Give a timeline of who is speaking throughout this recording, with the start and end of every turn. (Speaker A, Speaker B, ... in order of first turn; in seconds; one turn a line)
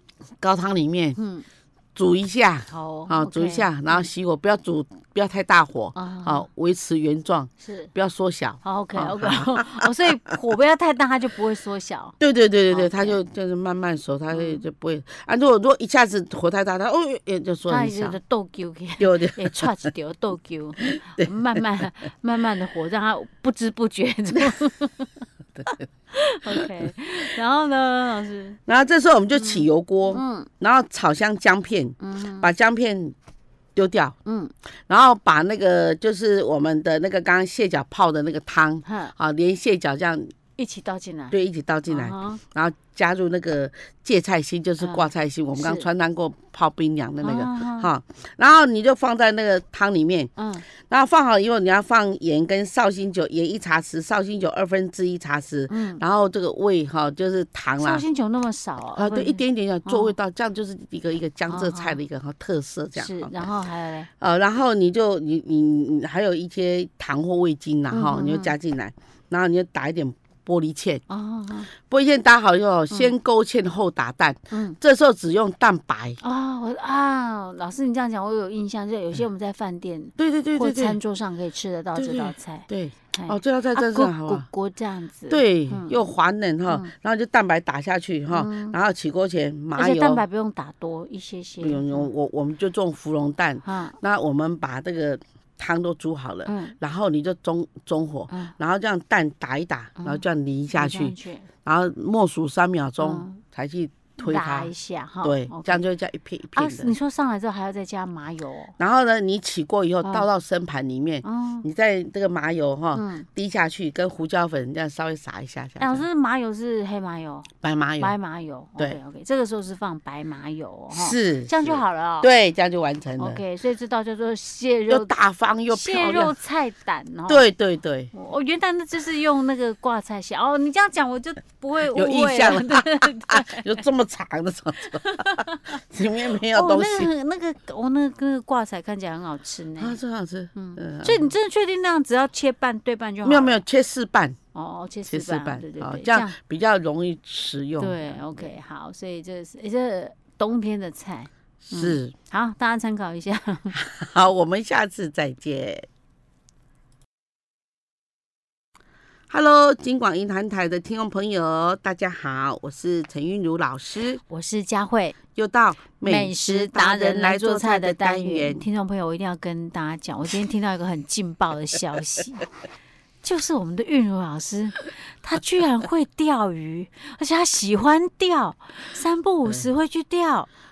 Speaker A: 0.4-1.2
Speaker B: 1.2-1.5
Speaker A: 1.9-9.9
Speaker B: 2.7-4.0
Speaker B: 5.9-6.5
Speaker B: 7.6-7.9
Speaker B: 8.6-12.1
Speaker A: 12.2-18.2
Speaker B: 12.7-13.2
Speaker B: 14.3-14.6
Speaker B: 17.7-25.1
Speaker A: 19.0-19.7
Speaker A: 20.9-21.3
Speaker A: 25.6-25.8
Speaker B: 25.7-28.6
Speaker A: 28.7-33.1
Speaker B: 29.3-30.5
Speaker B: 32.0-32.5
Speaker A: 33.8-34.2
Speaker B: 34.2-34.5
Speaker A: 34.9-40.3
Speaker B: 38.8-39.1
Speaker B: 40.6-41.4
Speaker A: 41.3-58.0
Speaker B: 41.9-42.4
Speaker B: 44.8-45.9
Speaker B: 47.2-47.9
Speaker B: 50.4-50.6
Speaker B: 55.7-56.0
Speaker B: 57.8-60.1
Speaker A: 59.0-63.4
Speaker B: 61.5-62.0
Speaker B: 63.0-64.1
Speaker A: 64.2-71.0
Speaker B: 67.9-68.5
Speaker B: 71.1-71.7
Speaker A: 71.8-76.2
Speaker B: 74.5-74.8
Speaker B: 76.2-86.0
Speaker A: 80.2-81.0
Speaker A: 82.0-84.5
Speaker A: 85.3-90.2
Speaker B: 88.3-88.8
Speaker B: 89.7-92.1
Speaker A: 91.6-104.7
Speaker B: 93.6-94.0
Speaker B: 96.5-96.7
Speaker B: 100.7-101.5
Speaker B: 103.0-103.4
Speaker B: 104.2-105.8
Speaker A: 105.2-106.9
Speaker B: 106.5-108.8
Speaker A: 108.8-116.0
Speaker B: 111.2-111.7
Speaker B: 112.9-113.3
Speaker B: 115.8-122.3
Speaker A: 117.6-118.1
Speaker A: 120.9-123.4
Speaker B: 123.2-125.1
Speaker A: 124.9-126.3
Speaker B: 125.7-127.4
Speaker A: 127.3-128.1
Speaker B: 128.1-133.8
Speaker A: 131.9-137.1
Speaker B: 135.0-135.8
Speaker B: 136.5-140.0
Speaker A: 139.8-141.3
Speaker B: 140.5-143.6
Speaker A: 143.2-144.4
Speaker B: 144.5-146.3
Speaker A: 145.1-148.5
Speaker B: 147.8-153.8
Speaker A: 151.7-152.1
Speaker A: 153.7-155.9
Speaker A: 159.3-164.2
Speaker B: 164.3-165.2
Speaker A: 165.3-168.6
Speaker B: 166.0-172.4
Speaker B: 173.2-180.5